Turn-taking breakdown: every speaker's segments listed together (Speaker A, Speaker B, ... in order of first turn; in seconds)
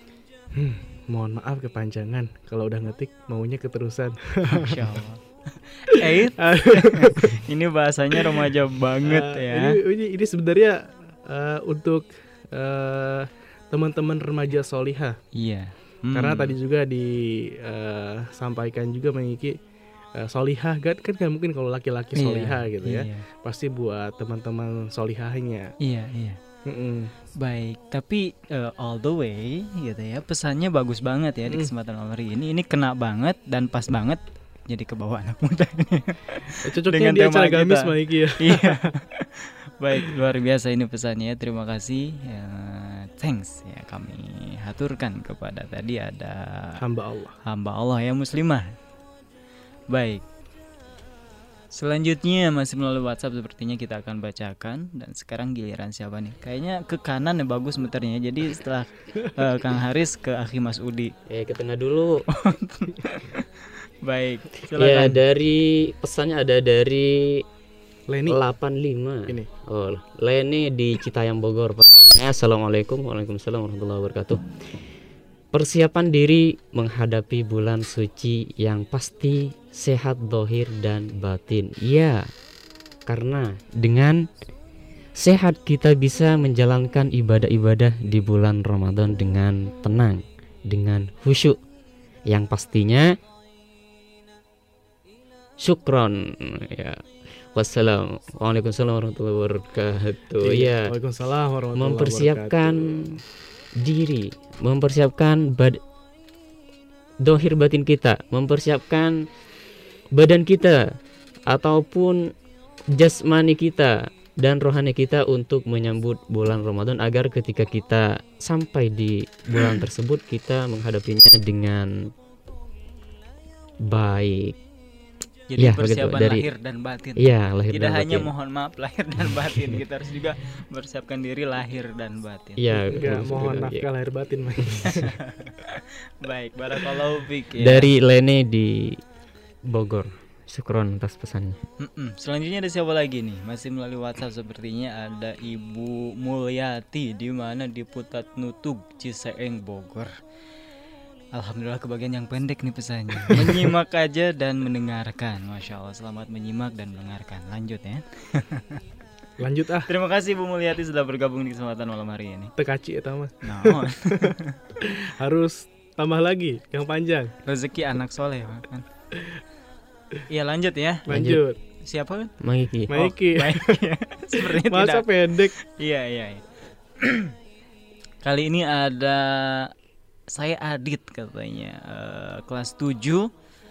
Speaker A: 0.6-4.8, 5.9-7.4, 9.1-15.2, 16.1-19.6, 20.2-25.7, 26.6-27.1, 36.6-38.9, 46.8-47.4, 68.1-68.4, 100.4-103.2, 133.0-135.1, 153.3-153.6, 159.4-159.9, 162.6-167.3, 169.2-169.4, 171.1-171.6, 172.9-173.8, 174.3-175.5
Speaker B: 4.5-9.8, 15.3-16.5, 22.2-23.2, 25.8-26.4, 27.4-37.9, 38.4-46.8, 47.4-48.7, 49.9-50.2, 51.7-61.1, 62.4-63.5, 64.0-65.2, 125.5-132.8, 134.9-137.9, 141.8-150.1, 151.3-158.8, 159.9-162.5, 163.4-164.6, 167.4-168.8, 170.3-171.1, 171.8-172.3, 172.9-175.1, 175.7-176.4, 177.0-177.3, 178.2-179.7, 180.3-183.3
Speaker C: 61.3-62.2, 64.8-67.4, 68.3-74.7, 75.5-82.2, 83.1-84.2, 85.2-91.6, 92.3-93.1, 95.6-100.9, 101.8-103.2, 103.8-105.8, 107.2-109.1, 110.2-110.8, 111.5-112.2, 113.0-121.9, 123.8-124.5, 125.6-126.5, 127.2-128.3, 132.6-133.8, 137.6-139.0, 139.7-141.6, 171.1-171.4, 172.4-172.9